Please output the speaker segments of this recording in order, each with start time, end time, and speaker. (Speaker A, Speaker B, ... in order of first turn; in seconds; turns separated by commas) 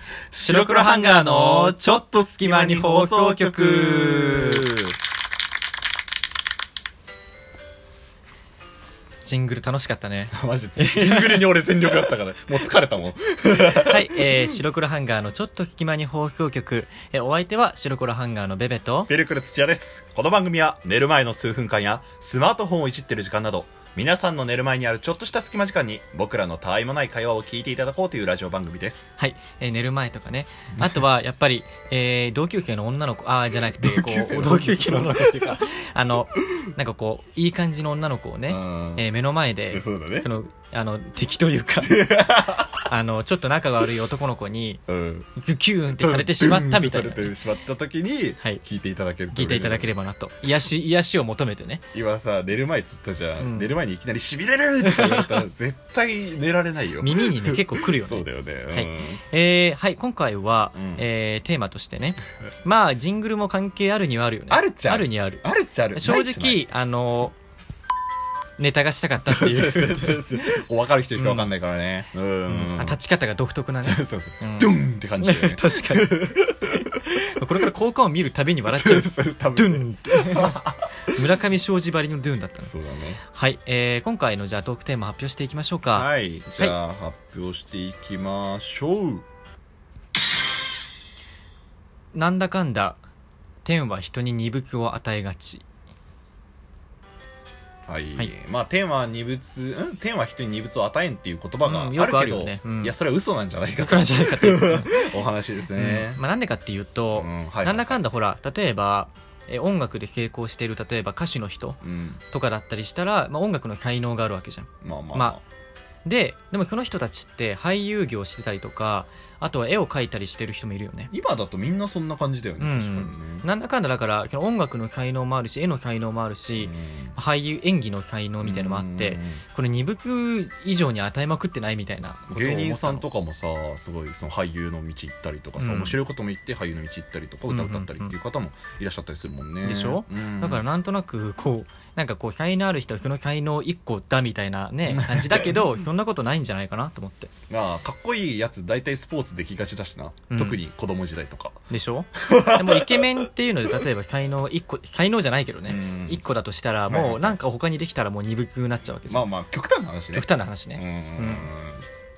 Speaker A: 0.3-5.0, Speaker B: 0.4-4.7, Speaker B: 9.2-11.5, Speaker A: 10.3-14.4, Speaker B: 13.8-19.1, Speaker A: 19.1-29.1, Speaker B: 29.2-42.0, Speaker A: 33.7-35.6, Speaker A: 38.5-39.1, Speaker A: 39.7-40.3, Speaker A: 41.8-42.9, Speaker B: 42.9-44.8, Speaker A: 44.9-45.3, Speaker B: 45.4-47.4, Speaker A: 45.9-49.9, Speaker B: 49.3-51.9, Speaker A: 51.9-59.2, Speaker B: 53.4-53.7, Speaker B: 54.8-55.4, Speaker B: 57.0-67.4, Speaker A: 60.8-61.0, Speaker A: 64.5-66.6, Speaker B: 68.6-70.3, Speaker A: 69.2-73.0, Speaker B: 71.2-71.5, Speaker B: 72.5-76.3, Speaker A: 73.8-77.5, Speaker B: 76.9-82.7, Speaker A: 78.7-81.2, Speaker A: 82.6-83.2, Speaker B: 83.3-86.1, Speaker A: 85.9-89.2, Speaker B: 92.1-93.0, Speaker B: 93.6-95.6, Speaker A: 97.9-106.2, Speaker B: 101.6-102.9, Speaker B: 103.8-105.1, Speaker B: 105.8-111.8, Speaker A: 107.2-108.0, Speaker A: 111.8-112.2, Speaker B: 112.3-115.4, Speaker A: 114.8-115.3, Speaker B: 116.0-121.1, Speaker A: 121.1-123.5, Speaker B: 122.6-133.0, Speaker A: 126.6-127.2, Speaker A: 128.4-129.4, Speaker A: 132.3-140.6, Speaker B: 135.6-136.0, Speaker B: 137.5-138.1, Speaker B: 139.6-147.3, Speaker A: 144.9-145.6, Speaker A: 147.5-151.7, Speaker B: 150.3-150.6, Speaker B: 151.7-159.3, Speaker A: 152.2-153.1, Speaker A: 155.7-156.2, Speaker A: 156.9-157.4, Speaker A: 159.1-161.8, Speaker B: 160.1-161.5